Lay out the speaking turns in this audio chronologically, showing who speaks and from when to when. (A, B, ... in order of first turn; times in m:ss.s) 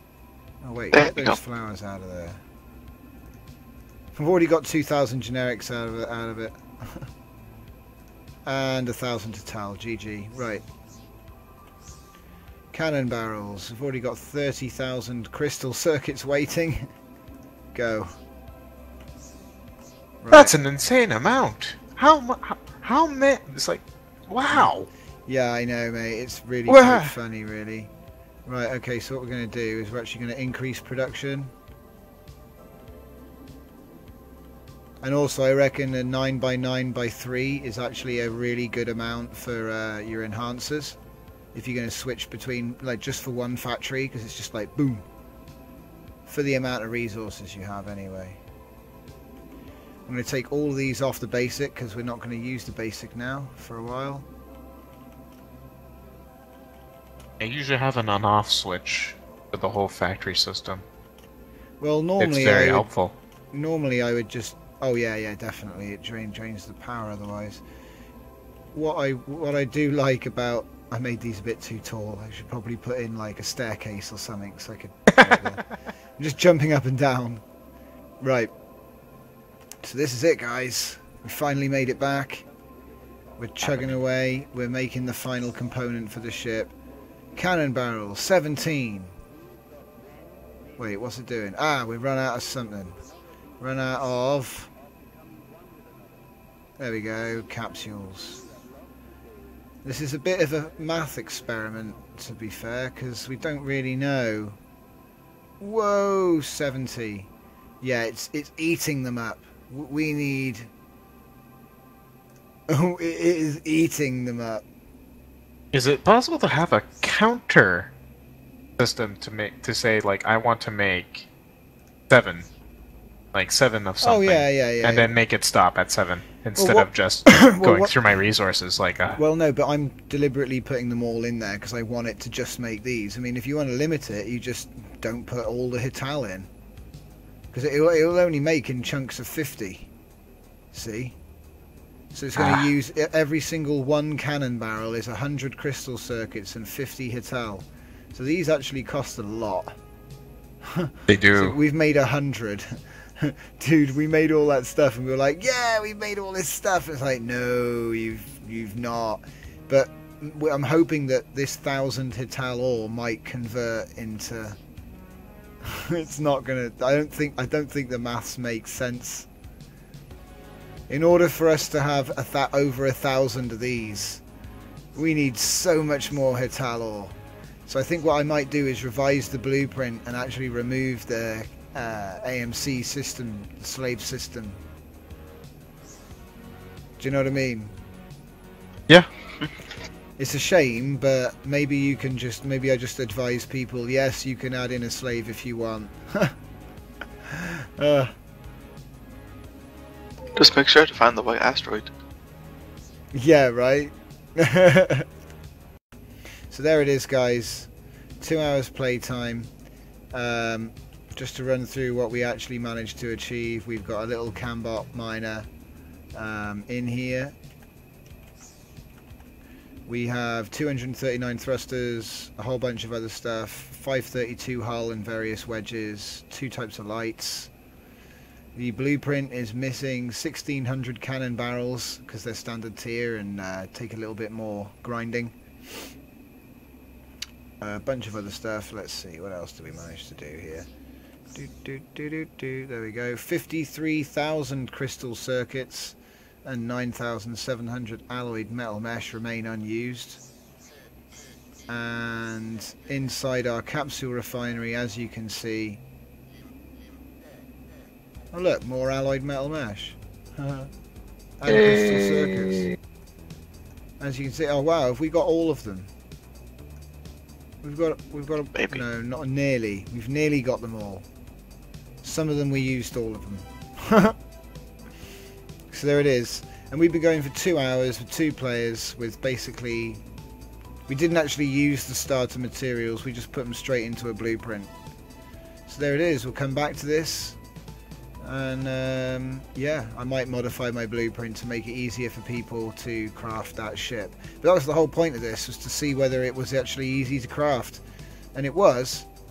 0:00.6-0:02.4 A
0:00.9-0:01.4 B
0:04.1-0:07.1 A
0:08.4-0:10.6 A
0:12.7-0:16.9 A
0:17.7-0:18.1 A
0:20.2-0:20.5 A
0:20.3-0:24.9 C
0:25.3-0:27.9 A
0:26.7-0:27.2 C
0:28.4-0:31.5 A
0:35.0-0:41.0 A
0:41.5-0:45.0 A
0:46.2-0:48.4 A
0:50.1-0:54.3 A
0:57.4-1:00.8 C
1:01.8-1:02.9 A
1:02.2-1:03.1 C
1:03.5-1:07.6 A
1:08.7-1:17.4 A
1:18.2-1:18.5 A
1:19.8-1:22.4 A
1:23.4-1:26.7 A
1:23.6-1:24.0 C
1:27.4-1:29.1 A
1:30.8-1:33.0 A
1:33.6-1:34.7 A
1:36.8-1:38.4 A
1:39.8-1:44.6 A
1:45.6-1:47.3 A
1:47.8-1:50.7 A
1:52.7-1:54.6 A
1:55.7-1:57.9 C
1:58.8-2:01.3 C
2:02.1-2:02.5 C
2:03.3-2:09.2 C
2:04.0-2:05.1 A
2:06.6-2:07.9 A
2:09.2-2:16.5 A
2:17.5-2:19.9 A
2:20.7-2:21.2 A
2:22.1-2:29.7 A
2:22.4-2:22.7 C
2:30.6-2:44.6 A
2:31.1-2:31.6 C
2:45.7-2:49.3 A
2:50.9-2:54.2 A
2:54.9-2:57.1 A
2:57.7-3:04.6 A
3:07.0-3:07.7 A
3:10.2-3:16.3 A
3:17.3-3:18.1 A
3:20.4-3:21.9 B
3:23.1-3:25.0 A
3:26.5-3:27.7 A
3:28.2-3:29.5 A
3:30.1-3:35.5 A
3:36.1-3:37.3 A
3:39.9-3:47.5 A
3:48.5-3:55.4 A
3:57.6-4:00.7 A
4:01.3-4:10.2 A
4:11.7-4:15.8 A
4:18.3-4:20.7 A
4:21.4-4:22.7 A
4:24.0-4:25.9 A
4:27.6-4:31.0 A
4:28.5-4:28.8 B
4:32.0-4:34.2 A
4:35.7-4:40.0 A
4:40.9-4:44.7 A
4:45.7-4:47.4 A
4:48.2-4:57.8 A
4:58.3-4:59.1 A